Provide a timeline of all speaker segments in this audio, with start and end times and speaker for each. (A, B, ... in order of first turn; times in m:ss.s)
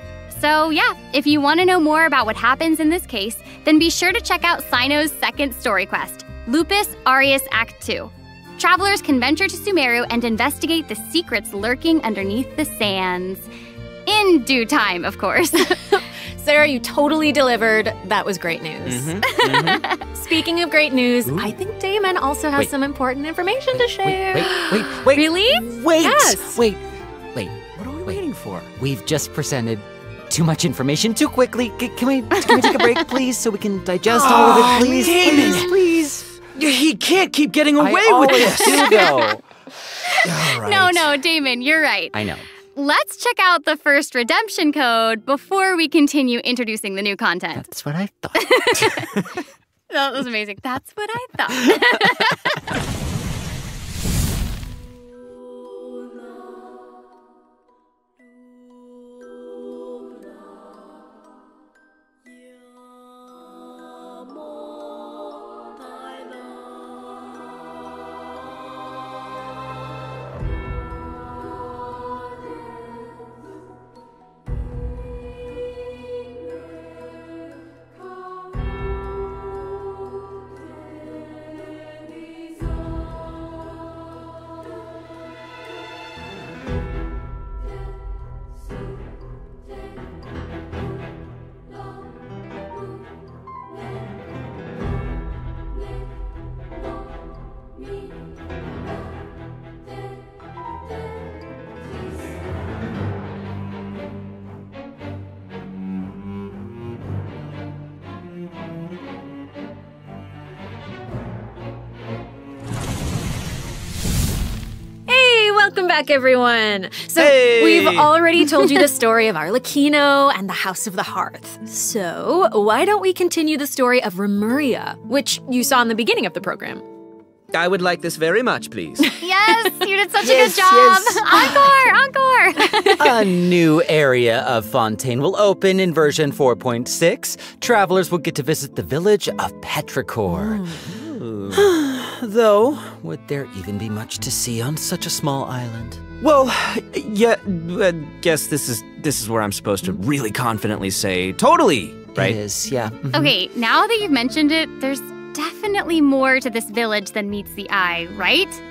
0:00.3-0:13.5 A
0:14.1-0:15.8 A
0:15.9-0:19.2 B
0:18.8-0:19.8 C
0:19.2-0:20.0 A
0:20.0-0:26.6 B
0:21.2-0:21.5 D
0:23.7-0:26.8 D
0:27.3-0:28.2 D
0:27.7-0:28.7 C
0:28.8-0:36.2 D
0:32.4-0:33.0 A
0:34.1-0:35.7 B
0:34.2-0:35.8 C
0:36.5-0:39.1 C
0:37.8-0:39.4 D
0:38.8-0:39.4 A
0:40.2-0:47.7 A
0:40.2-0:41.1 C
0:42.1-0:42.4 D
0:47.5-0:49.1 D
0:48.4-0:49.1 A
0:49.9-0:52.6 A
1:55.1-2:06.8 B
1:57.2-1:58.1 C
2:07.5-2:09.0 C
2:09.0-2:09.7 B
2:09.2-2:13.3 A
2:10.2-2:11.8 D
2:11.3-2:11.6 B
2:12.7-2:13.2 B
2:13.0-2:20.9 D
2:20.3-2:20.9 B
2:21.0-2:21.6 C
2:21.5-2:26.0 D
2:26.2-2:32.4 C
2:32.1-2:33.3 D
2:33.1-2:38.6 A